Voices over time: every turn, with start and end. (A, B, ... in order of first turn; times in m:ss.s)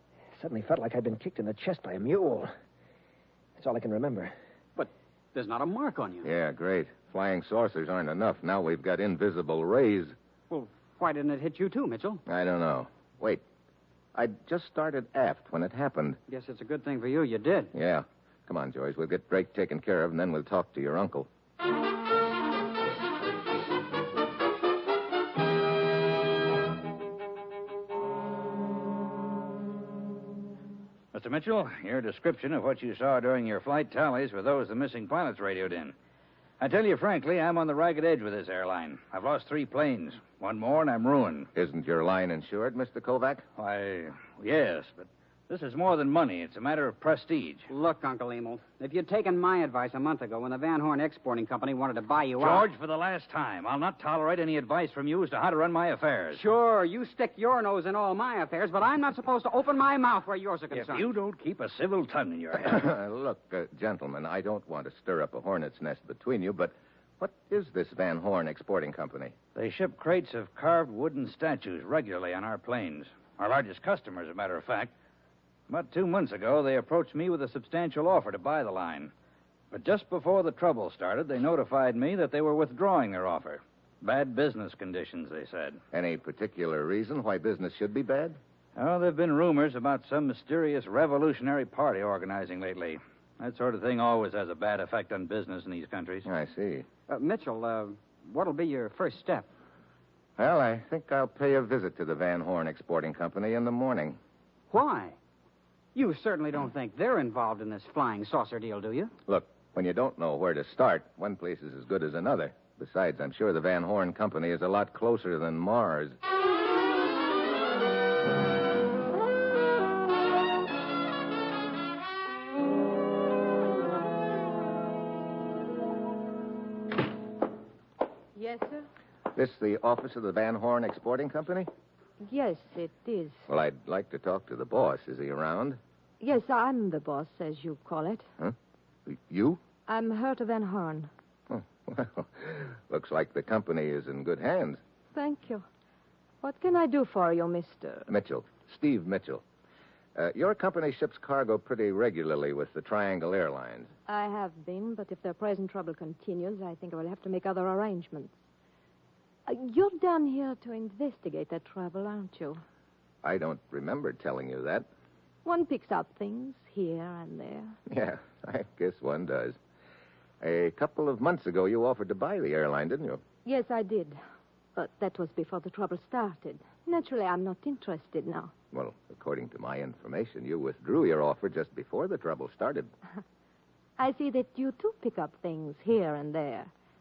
0:00.3-0:02.5 A
0:03.6-0:04.3 A
0:04.8-0:06.3 B
0:06.2-0:10.2 C
0:10.5-0:12.2 B
0:12.3-0:13.4 C
0:14.1-0:16.2 C
0:16.3-0:17.7 B
0:17.7-0:21.3 C
0:31.1-0:35.9 D
0:36.6-0:41.5 D
0:41.5-0:43.4 C
0:43.6-0:47.7 D
0:47.7-0:52.7 B
0:52.4-0:56.4 D
0:56.3-1:01.1 B
1:00.7-1:02.8 D
1:02.6-1:09.4 C
1:09.5-1:14.9 D
1:15.7-1:19.1 D
1:19.7-1:25.8 D
1:25.9-1:28.4 C
1:28.8-1:36.3 D
1:36.2-1:36.9 C
1:37.1-1:39.5 B
1:40.4-1:44.2 C
1:44.7-1:45.2 B
1:45.9-1:49.1 B
1:49.3-1:56.2 C
2:08.4-2:08.8 E
2:09.3-2:11.7 C
2:12.2-2:13.4 E
2:13.5-2:15.8 C
2:16.2-2:18.3 E
2:19.0-2:19.6 C
2:19.9-2:21.1 E
2:21.5-2:24.8 C
2:25.1-2:25.6 E
2:26.4-2:28.1 E
2:28.1-2:29.4 C
2:30.1-2:33.9 C
2:34.1-2:38.4 E
2:39.4-2:42.6 E
2:43.2-2:44.8 C
2:45.4-2:47.8 E
2:47.9-2:49.6 C
2:50.4-2:53.2 C
2:53.4-2:54.2 E
2:54.7-2:58.5 E
2:58.7-3:02.9 C
3:04.0-3:06.7 E